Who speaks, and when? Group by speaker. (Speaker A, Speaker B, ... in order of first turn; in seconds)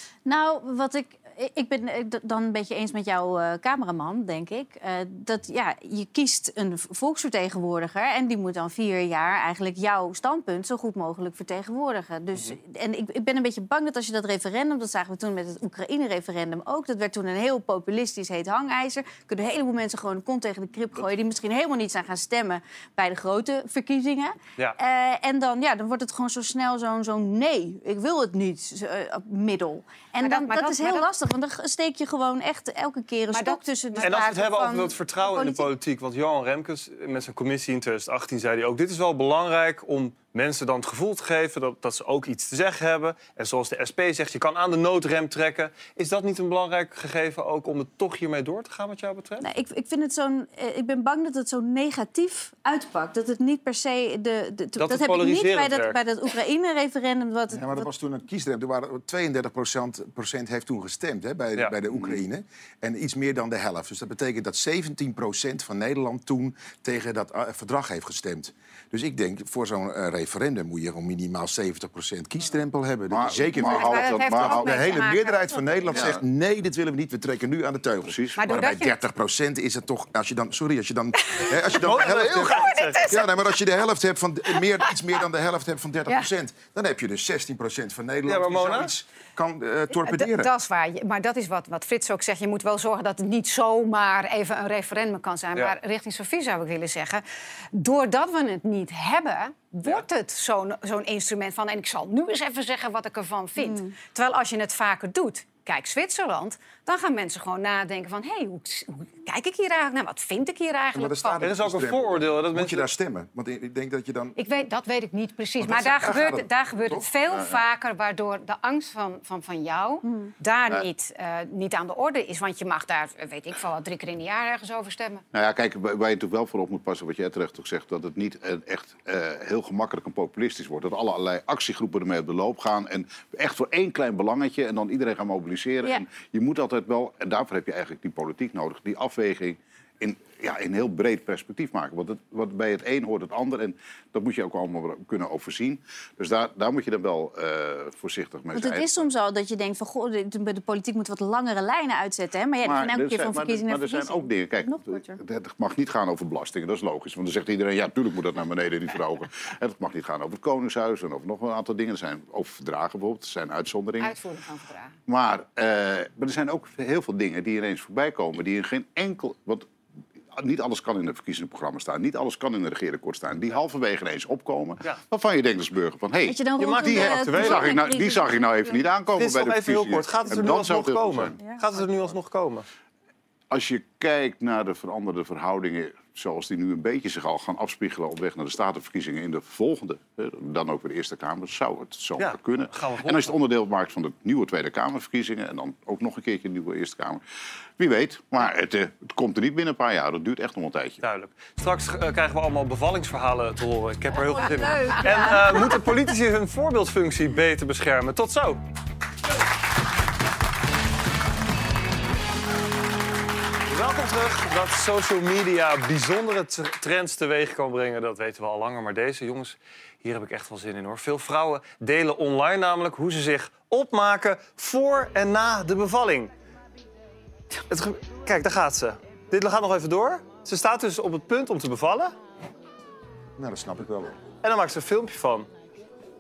Speaker A: 0.3-35.7, 49.4-57.9, 103.6-104.0, 120.0-120.3, 148.5-155.2, 176.3-178.9, 181.4-181.7, 204.1-205.8
Speaker B: 30.2-31.1, 33.3-34.4, 73.6-75.9, 78.4-79.0, 82.3-83.3, 89.9-111.5, 114.4-125.2, 164.0-165.0
Speaker C: 34.0-49.4, 54.8-56.0, 81.8-83.1, 88.3-88.9, 111.4-112.9, 176.6-177.7, 179.2-182.7, 192.2-193.4, 201.0-208.6, 213.7-226.3, 227.7-232.1, 234.4-235.5
Speaker D: 57.5-90.5, 110.9-114.4, 115.6-117.1, 233.4-234.2
Speaker E: 73.1-75.0, 78.0-78.5, 125.3-149.0, 152.6-164.2, 165.1-169.7, 170.3-181.4, 183.5-197.2, 197.8-201.0